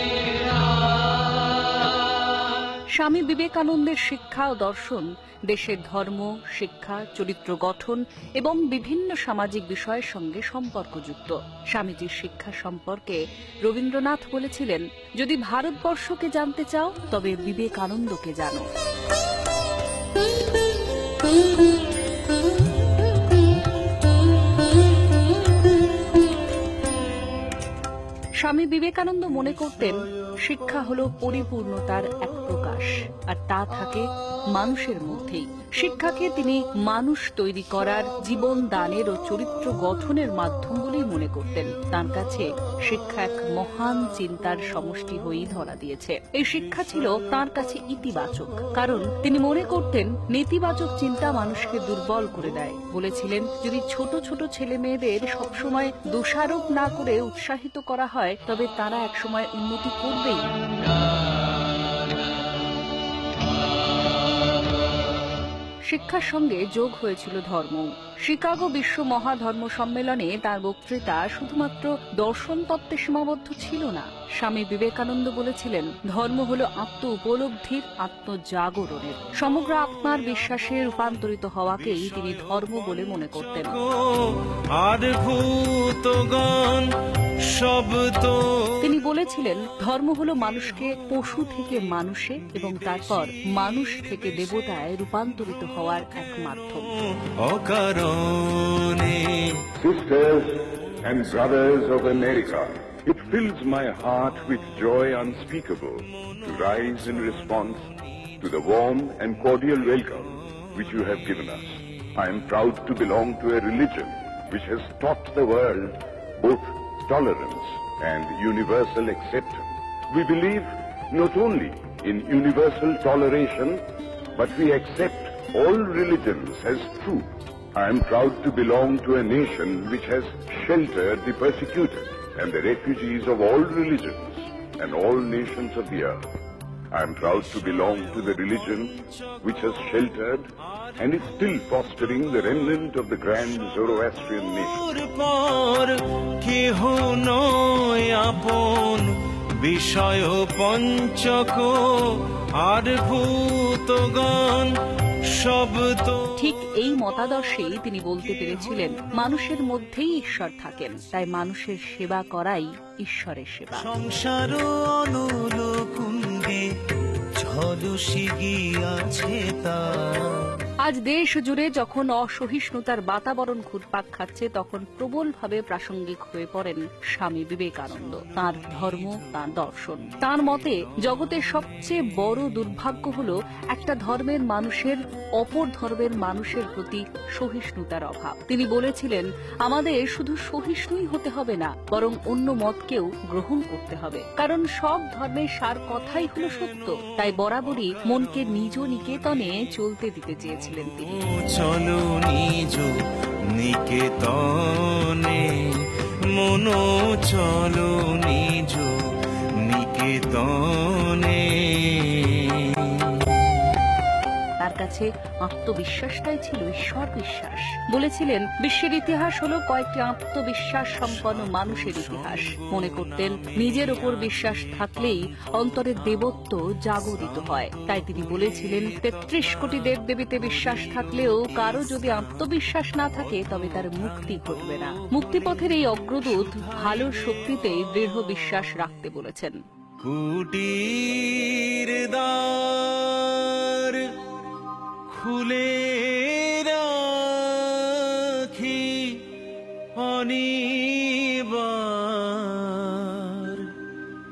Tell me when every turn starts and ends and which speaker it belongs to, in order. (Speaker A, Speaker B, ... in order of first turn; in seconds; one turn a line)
Speaker A: 3.0-18.6
Speaker A: 28.4-60.5
Speaker A: 65.9-83.8
Speaker B: 81.9-82.8
Speaker B: 83.6-86.9
Speaker B: 87.4-88.8
Speaker A: 88.8-96.9
Speaker B: 97.2-99.7
Speaker C: 99.8-107.8
Speaker C: 108.4-123.8
Speaker C: 124.3-136.2
Speaker C: 136.9-144.8
Speaker B: 144.7-154.7
Speaker B: 155.2-156.3
Speaker A: 156.3-163.9
Speaker B: 163.7-166.7
Speaker B: 167.3-170.6
Speaker A: 170.8-201.2
Speaker B: 201.2-203.0
Speaker B: 203.5-209.0
Speaker B: 209.6-213.4
Speaker A: 214.6-239.6
Speaker B: 240.0-244.1
Speaker B: 245.1-249.3
Speaker B: 250.0-253.7